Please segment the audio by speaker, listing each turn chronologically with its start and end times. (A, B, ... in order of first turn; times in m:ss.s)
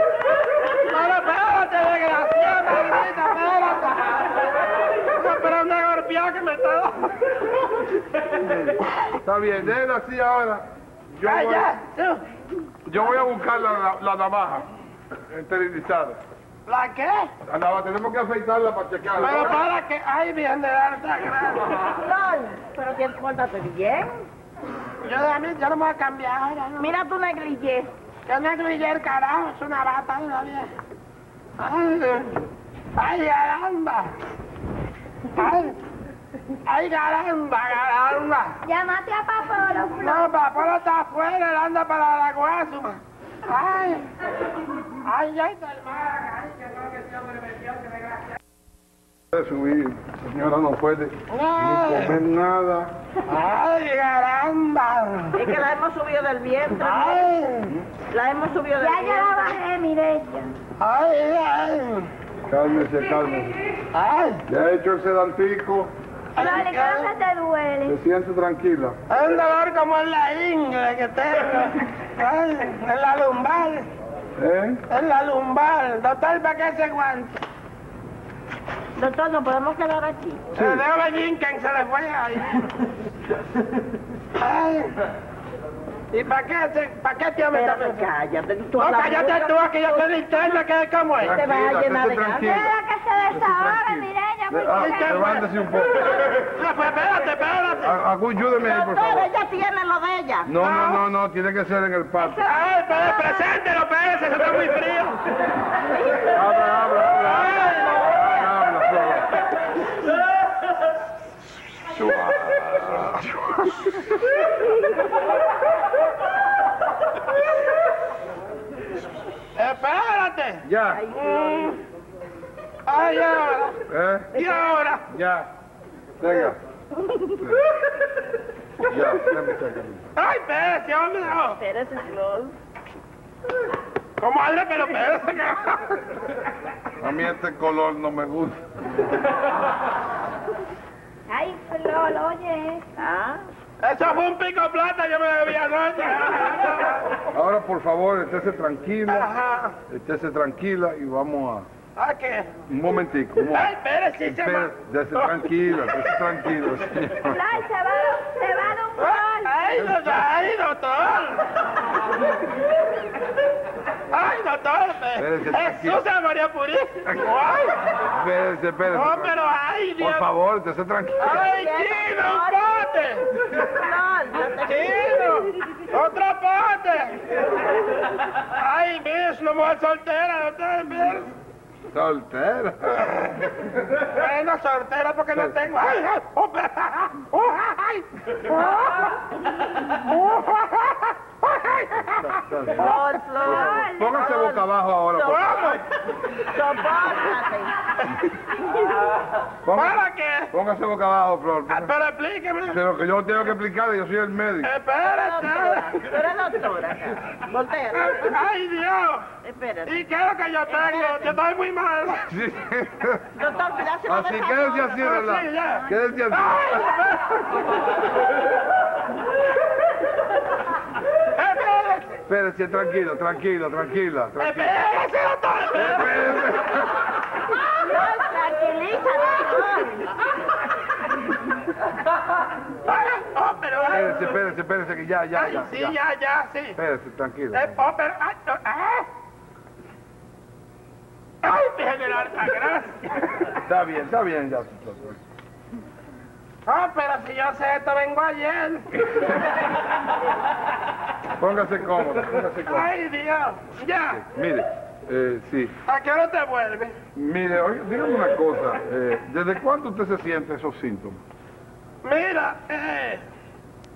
0:00.8-0:04.4 A
0:05.2-0:07.6 A
0:08.4-0:11.7 B
0:11.2-0:12.2 A
0:12.9-0:14.7 B
0:15.3-0:16.2 B
0:16.7-0:17.3 A
0:17.5-0:19.7 B
0:19.2-0:21.7 A
0:21.9-0:24.2 C
0:25.0-0:26.9 A
0:26.8-0:27.9 C
0:28.3-0:30.7 A
0:31.6-0:32.4 A
0:33.0-0:34.1 A
0:35.4-0:35.8 A
0:36.7-0:38.6 A
0:38.6-0:40.3 D
0:40.0-0:44.1 A
0:45.0-0:48.3 A
0:49.3-0:52.9 B
0:51.4-0:52.2 A
0:53.3-0:55.4 A
0:55.3-0:57.3 C
0:56.8-0:57.7 A
0:58.1-0:59.6 C
0:58.8-1:00.6 D
1:00.8-1:02.1 A
1:02.5-1:03.6 B
1:03.9-1:04.4 A
1:04.5-1:05.9 B
1:06.4-1:07.1 A
1:06.4-1:08.0 D
1:07.8-1:09.0 B
1:09.1-1:13.9 A
1:14.4-1:14.8 B
1:14.9-1:17.3 A
1:19.0-1:20.4 C
1:20.5-1:20.8 B
1:20.6-1:22.6 A
1:24.4-1:24.9 A
1:26.1-1:28.1 A
1:27.5-1:30.4 C
1:28.8-1:31.4 A
1:31.2-1:32.8 B
1:31.2-1:32.6 C
1:32.4-1:35.4 D
1:33.3-1:36.4 B
1:34.7-1:37.9 A
1:37.8-1:39.3 B
1:38.6-1:40.5 C
1:40.5-1:42.5 B
1:40.6-1:41.0 A
1:42.2-1:43.5 D
1:42.4-1:45.2 A
1:46.2-1:49.3 B
1:47.4-1:48.0 A
1:51.9-1:54.4 B
1:59.6-2:00.6 A
2:00.6-2:01.0 B
2:00.9-2:01.8 C
2:01.2-2:01.5 A
2:02.9-2:03.8 A
2:03.9-2:04.4 B
2:04.3-2:05.0 A
2:04.4-2:04.9 C
2:05.1-2:05.5 B
2:06.2-2:06.6 B
2:07.0-2:07.4 C
2:07.4-2:07.7 B
2:08.8-2:10.2 B
2:10.2-2:11.6 A
2:11.4-2:12.6 C
2:14.2-2:16.0 A
2:17.0-2:18.6 B
2:21.3-2:22.8 D
2:23.0-2:23.4 C
2:23.8-2:27.2 A
2:27.3-2:29.3 B
2:29.1-2:29.8 A
2:29.9-2:31.7 B
2:32.0-2:32.5 A
2:32.7-2:33.7 B
2:33.5-2:36.0 A
2:34.2-2:37.7 B
2:37.2-2:39.8 D
2:39.0-2:41.5 A
2:39.8-2:40.2 B
2:44.1-2:47.8 A
2:45.2-2:46.0 B
2:48.1-2:49.4 B
2:48.9-2:50.2 A
2:50.0-2:51.4 B
2:51.2-2:53.0 C
2:51.2-2:53.3 A
2:53.6-2:55.3 C
2:54.7-2:57.2 A
2:58.5-3:01.3 A
3:01.9-3:04.0 B
3:04.1-3:09.2 A
3:09.9-3:12.3 A
3:12.2-3:15.8 B
3:12.7-3:15.5 C
3:13.4-3:14.6 D
3:15.3-3:15.8 A
3:16.4-3:17.7 C
3:19.6-3:20.0 B
3:19.7-3:20.5 A
3:20.5-3:21.9 B
3:21.7-3:22.8 A
3:22.7-3:24.7 B
3:24.6-3:26.0 A
3:25.2-3:28.3 C
3:27.9-3:29.3 A
3:29.4-3:30.0 C
3:29.9-3:32.3 A
3:30.7-3:31.4 C
3:32.3-3:33.3 B
3:33.4-3:35.1 C
3:34.1-3:37.0 B
3:35.0-3:37.4 A
3:41.4-3:42.2 A
3:42.3-3:44.8 B
3:44.4-3:46.4 A
3:45.7-3:47.2 B
3:47.6-3:50.1 C
3:52.9-3:54.4 A
3:53.9-3:56.0 B
3:55.3-3:56.8 A
3:56.8-3:57.8 B
3:57.5-3:59.1 A
4:01.4-4:03.3 A
4:03.6-4:05.2 B
4:06.7-4:08.9 A
4:11.4-4:12.9 B
4:12.6-4:14.2 A
4:14.1-4:15.8 B
4:15.9-4:17.0 A
4:17.2-4:21.2 B
4:22.0-4:23.2 A